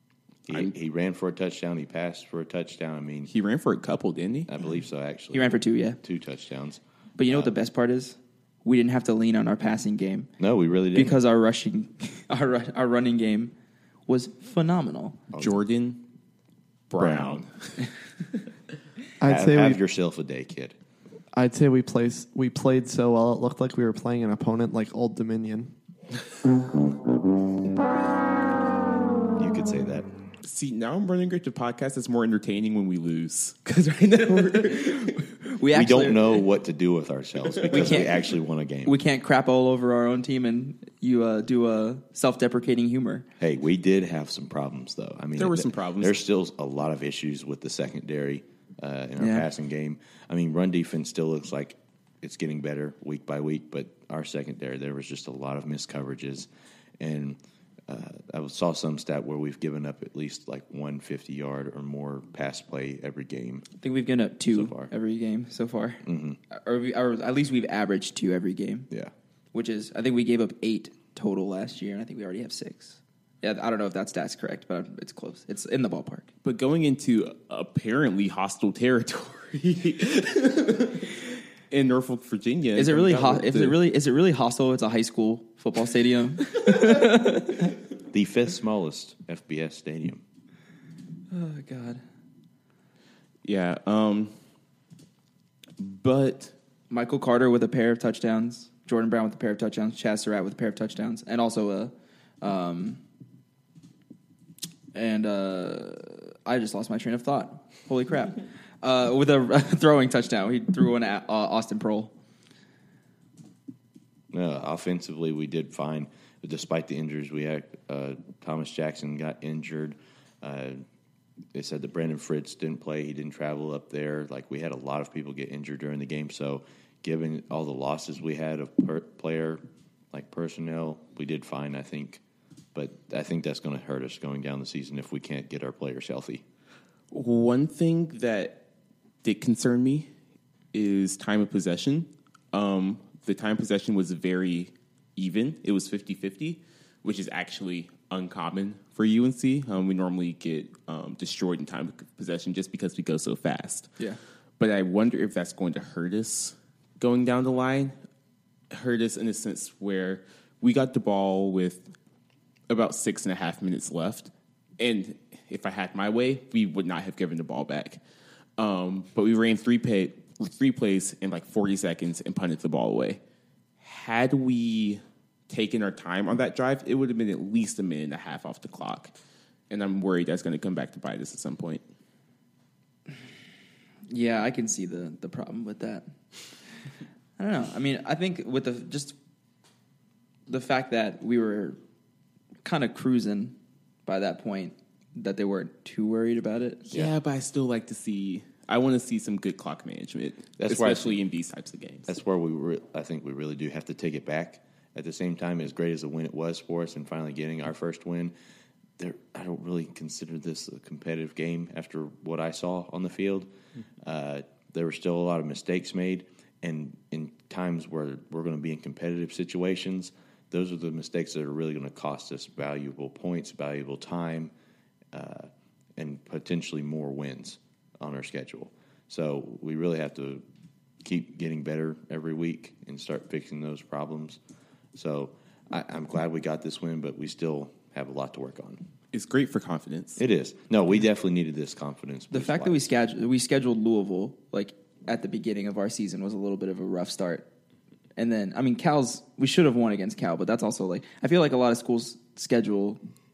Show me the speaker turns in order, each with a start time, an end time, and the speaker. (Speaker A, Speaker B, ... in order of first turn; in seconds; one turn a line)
Speaker A: 0.5-3.3
Speaker B: 3.3-4.5
Speaker A: 4.5-7.5
Speaker C: 5.3-6.0
Speaker C: 7.2-10.3
Speaker A: 10.4-11.2
Speaker C: 10.9-13.5
Speaker C: 14.1-15.2
Speaker A: 15.3-15.6
Speaker B: 15.4-16.0
Speaker B: 16.9-17.7
Speaker A: 17.0-17.4
Speaker D: 19.2-19.8
Speaker A: 19.2-20.7
Speaker D: 21.3-25.7
Speaker A: 29.4-30.1
Speaker B: 30.4-35.2
Speaker C: 34.7-36.4
Speaker A: 35.7-39.0
Speaker B: 37.6-38.1
Speaker C: 37.7-38.2
Speaker C: 38.9-43.2
Speaker A: 43.4-56.5
Speaker B: 45.4-46.2
Speaker C: 49.2-49.5
Speaker A: 57.0-63.6
Speaker C: 63.8-68.9
Speaker A: 64.5-64.9
Speaker A: 66.0-66.4
Speaker C: 69.5-76.3
Speaker B: 76.4-83.8
Speaker C: 82.8-87.7
Speaker A: 88.1-90.2
Speaker C: 91.3-92.0
Speaker B: 93.4-94.3
Speaker B: 95.8-96.5
Speaker C: 96.9-103.0
Speaker C: 104.9-112.1
Speaker A: 114.3-120.8
Speaker A: 121.5-132.2
Speaker A: 132.7-136.4
Speaker B: 137.1-138.6
Speaker B: 139.2-140.1
Speaker B: 140.7-153.9
Speaker B: 154.6-157.9
Speaker B: 158.7-161.9
Speaker B: 162.7-168.0
Speaker B: 168.6-173.2
Speaker B: 173.8-179.1
Speaker B: 179.7-181.8
Speaker C: 184.1-186.1
Speaker C: 187.4-189.1
Speaker C: 190.5-191.8
Speaker C: 192.6-196.8
Speaker B: 196.9-202.1
Speaker A: 200.6-201.2
Speaker A: 202.1-208.3
Speaker A: 209.0-213.5
Speaker A: 214.0-224.5
Speaker A: 225.1-230.4
Speaker A: 231.0-234.4
Speaker A: 234.9-238.8
Speaker B: 239.1-240.2
Speaker A: 240.2-242.9
Speaker C: 242.3-247.5
Speaker C: 248.2-253.0